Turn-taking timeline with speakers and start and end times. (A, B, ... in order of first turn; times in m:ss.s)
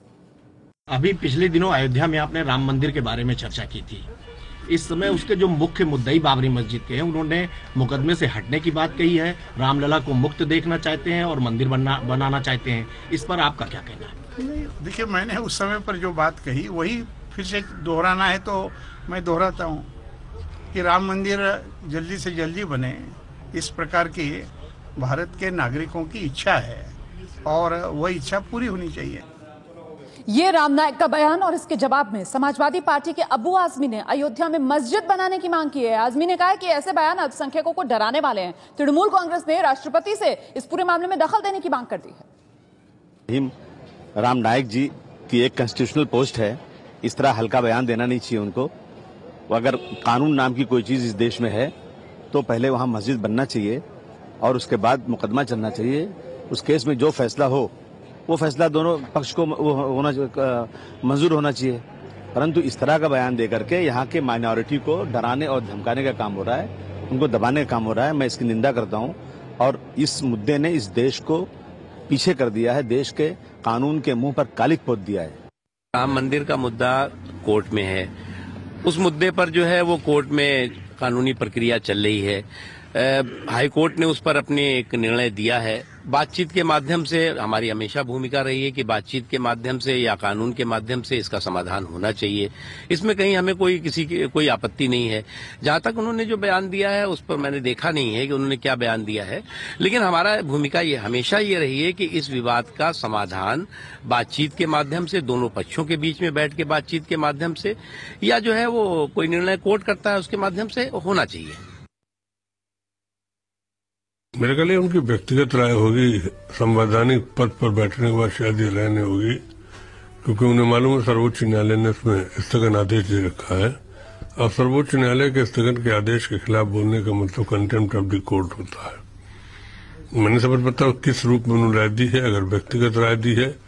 0:00.9-0:04.1 A
0:04.7-0:14.2 A
0:14.4-0:19.9 B
0:20.7-0:29.2 B
0:30.3-0:42.3 C
0:44.2-0:48.7 D
0:49.5-0:51.7 D
0:52.3-0:53.8 D
0:54.4-0:57.7 D
0:58.3-1:01.8 D
1:02.4-1:11.5 D
1:12.1-1:15.4 D
1:16.0-1:18.1 E
1:18.8-1:22.4 E
1:23.0-1:51.6 E
1:54.4-1:59.4 F
2:00.2-2:03.8 F
2:04.4-2:09.0 F
2:10.2-2:13.5 F